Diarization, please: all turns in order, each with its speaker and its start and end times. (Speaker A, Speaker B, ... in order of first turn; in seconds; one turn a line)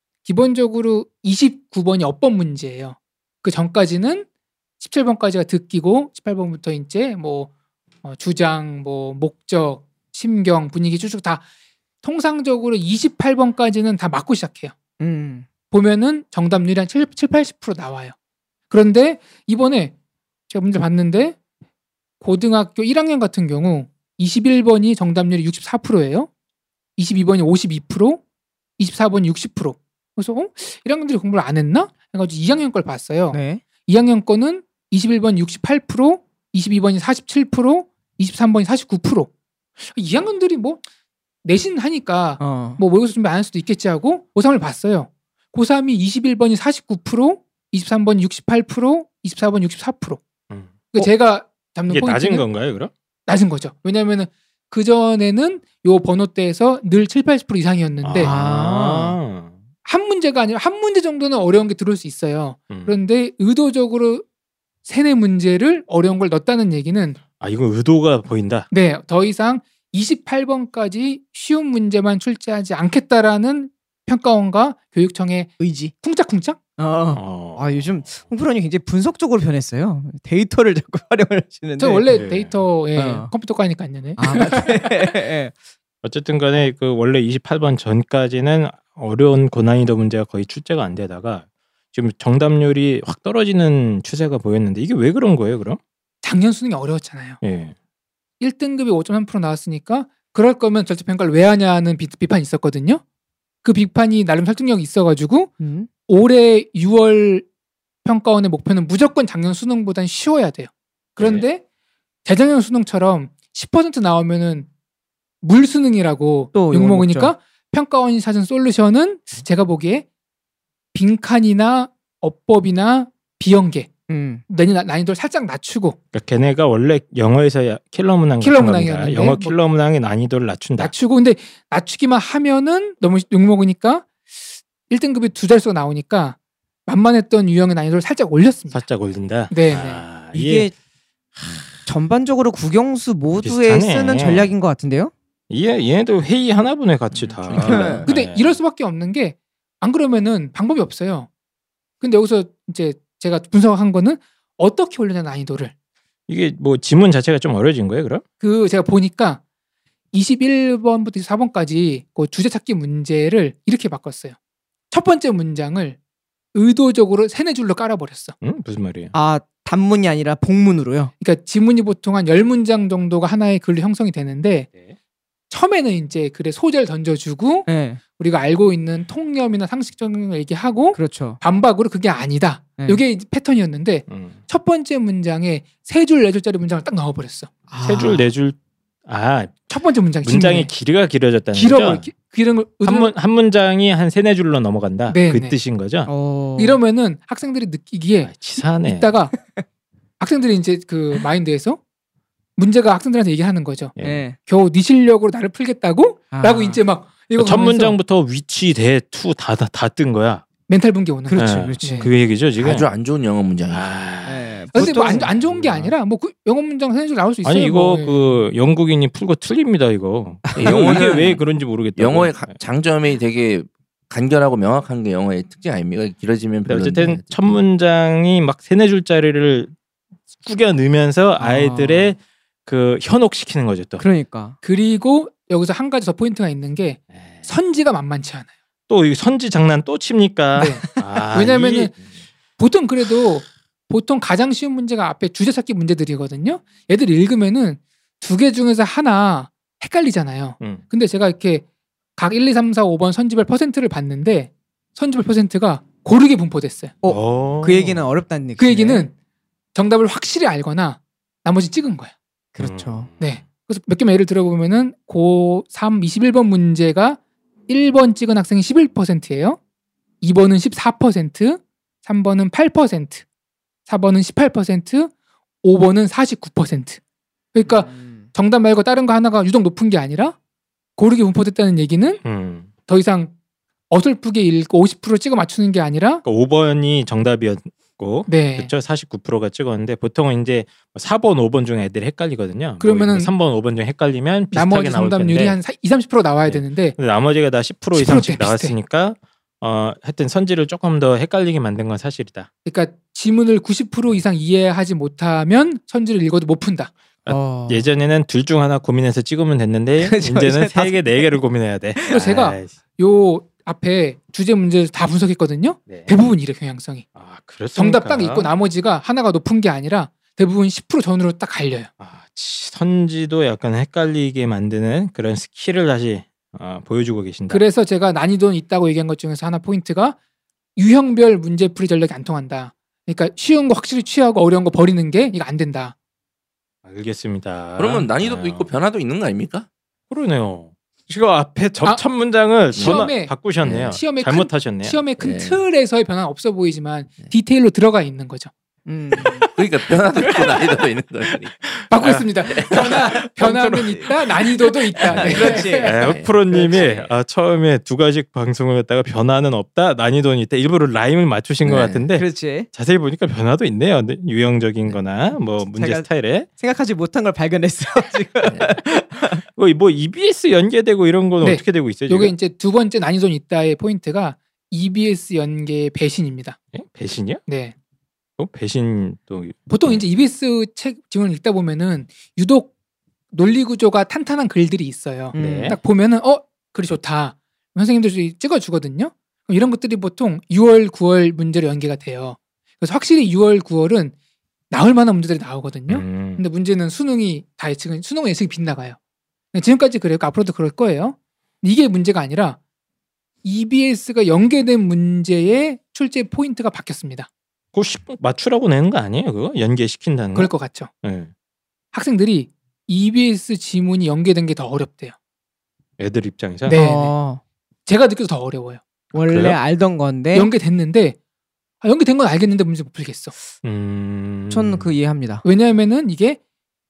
Speaker A: 0.2-4.3
Speaker A: 4.8-7.5
Speaker A: 8.0-11.4
Speaker A: 12.0-14.7
Speaker B: 15.0-15.5
Speaker A: 15.7-18.1
Speaker A: 18.7-19.9
Speaker A: 20.5-21.4
Speaker A: 22.2-26.3
Speaker A: 27.0-28.2
Speaker A: 28.8-39.3
Speaker B: 33.3-33.6
Speaker A: 39.9-40.8
Speaker A: 41.4-50.2
Speaker B: 42.4-42.8
Speaker A: 50.9-52.5
Speaker C: 51.9-52.9
Speaker A: 53.3-58.4
Speaker C: 58.0-59.5
Speaker B: 58.2-59.2
Speaker A: 59.9-64.2
Speaker C: 62.7-63.0
Speaker A: 64.8-67.2
Speaker C: 67.4-68.7
Speaker A: 68.7-76.6
Speaker B: 75.6-75.9
Speaker B: 76.8-82.1
Speaker C: 77.1-78.1
Speaker A: 81.8-84.8
Speaker C: 82.1-82.6
Speaker B: 83.0-83.3
Speaker B: 84.2-85.5
Speaker C: 86.0-95.8
Speaker A: 96.2-97.4
Speaker C: 97.4-97.7
Speaker A: 98.4-103.0
Speaker A: 103.6-105.5
Speaker B: 105.6-105.9
Speaker A: 106.1-107.5
Speaker A: 108.0-111.6
Speaker C: 111.2-111.4
Speaker A: 112.2-114.7
Speaker A: 115.4-120.1
Speaker B: 116.5-117.3
Speaker A: 120.9-123.9
Speaker B: 124.1-124.4
Speaker A: 124.5-126.0
Speaker C: 126.1-130.9
Speaker A: 128.4-129.6
Speaker A: 130.8-134.1
Speaker A: 134.9-138.8
Speaker C: 138.7-140.7
Speaker A: 139.5-140.1
Speaker B: 140.3-140.7
Speaker C: 141.4-141.7
Speaker B: 141.9-145.1
Speaker C: 143.4-144.5
Speaker C: 145.5-148.6
Speaker D: 147.5-148.1
Speaker B: 147.5-148.1
Speaker A: 148.1-151.3
Speaker A: 152.0-155.7
Speaker C: 156.3-158.2
Speaker A: 158.4-159.4
Speaker A: 160.1-164.4
Speaker A: 164.9-166.0
Speaker A: 166.5-168.3
Speaker C: 168.4-169.1
Speaker B: 169.1-171.1
Speaker A: 171.2-174.7
Speaker A: 175.5-187.5
Speaker B: 177.7-178.0
Speaker B: 180.9-181.4
Speaker C: 184.1-184.4
Speaker B: 187.7-188.3
Speaker C: 187.8-189.7
Speaker A: 189.7-190.7
Speaker C: 190.2-192.1
Speaker A: 191.5-193.1
Speaker C: 192.8-196.1
Speaker A: 195.1-195.6
Speaker B: 196.1-196.8
Speaker A: 196.6-198.3
Speaker C: 198.2-199.1
Speaker A: 198.8-199.3
Speaker A: 200.2-201.8
Speaker A: 202.6-203.9
Speaker C: 204.0-204.2
Speaker B: 204.0-204.4
Speaker A: 204.5-208.0
Speaker B: 206.3-206.8
Speaker C: 207.4-210.4
Speaker A: 210.7-212.1
Speaker B: 211.3-212.1
Speaker C: 211.4-212.9
Speaker D: 212.6-213.9
Speaker C: 213.7-215.9
Speaker B: 214.3-215.3
Speaker A: 214.7-218.4
Speaker C: 217.4-222.5
Speaker B: 220.5-221.2
Speaker D: 220.5-221.4
Speaker D: 222.0-227.6
Speaker C: 226.7-229.7
Speaker C: 230.4-234.1
Speaker B: 231.4-232.2
Speaker B: 234.0-234.6
Speaker A: 234.6-238.5
Speaker C: 237.1-237.5
Speaker C: 238.9-242.0
Speaker A: 240.6-241.9
Speaker A: 242.6-251.7
Speaker A: 252.2-256.9
Speaker B: 257.0-259.1
Speaker C: 257.1-258.0
Speaker A: 258.6-259.1
Speaker A: 259.7-262.1
Speaker B: 262.6-263.1
Speaker C: 262.6-263.3
Speaker A: 263.2-269.6
Speaker A: 270.2-273.2
Speaker A: 273.9-275.1
Speaker A: 275.6-277.0
Speaker A: 277.5-280.4
Speaker B: 277.6-278.3
Speaker A: 281.0-282.2
Speaker C: 282.2-282.7
Speaker A: 282.9-283.3
Speaker A: 283.9-286.2
Speaker C: 286.2-295.6
Speaker A: 288.3-288.7
Speaker A: 292.8-293.3
Speaker A: 294.5-297.0
Speaker C: 296.5-302.5
Speaker A: 297.9-298.8
Speaker A: 302.7-306.9
Speaker C: 307.2-312.7
Speaker B: 307.3-307.9
Speaker B: 310.0-311.4
Speaker A: 312.1-317.1
Speaker C: 315.9-316.3
Speaker C: 317.2-318.5
Speaker A: 317.7-321.9
Speaker C: 322.0-327.6
Speaker A: 327.5-330.2
Speaker A: 330.8-335.9
Speaker C: 336.9-338.7
Speaker D: 337.8-339.7
Speaker C: 340.1-345.0
Speaker D: 342.8-343.1
Speaker A: 342.8-343.3
Speaker D: 343.6-344.0
Speaker A: 343.9-348.5
Speaker D: 345.2-345.6
Speaker B: 348.9-349.6
Speaker D: 349.6-351.5
Speaker B: 350.2-350.5
Speaker C: 351.6-354.1
Speaker A: 351.9-355.9
Speaker D: 352.5-352.9
Speaker B: 353.4-354.1
Speaker B: 355.0-356.8
Speaker D: 355.1-357.1
Speaker C: 355.1-366.5
Speaker D: 361.6-362.1
Speaker B: 362.1-362.7
Speaker B: 365.6-369.4
Speaker D: 368.4-368.7
Speaker C: 369.6-372.3
Speaker A: 371.4-376.6
Speaker C: 376.7-377.4
Speaker A: 377.5-377.8
Speaker C: 378.4-380.0
Speaker A: 379.7-382.7
Speaker A: 383.3-394.1
Speaker B: 385.3-385.8
Speaker C: 385.4-385.8
Speaker A: 394.7-399.0
Speaker C: 395.9-396.4
Speaker A: 399.5-402.6
Speaker A: 403.4-407.3
Speaker C: 407.7-411.3
Speaker A: 410.4-410.9
Speaker A: 411.9-415.1
Speaker C: 416.0-416.8
Speaker A: 416.7-417.1
Speaker B: 416.7-417.4
Speaker A: 417.9-418.8
Speaker C: 419.1-419.6
Speaker B: 419.1-420.5
Speaker A: 420.3-421.2
Speaker A: 421.8-423.3
Speaker C: 423.6-424.9
Speaker B: 424.5-425.4
Speaker A: 425.4-426.4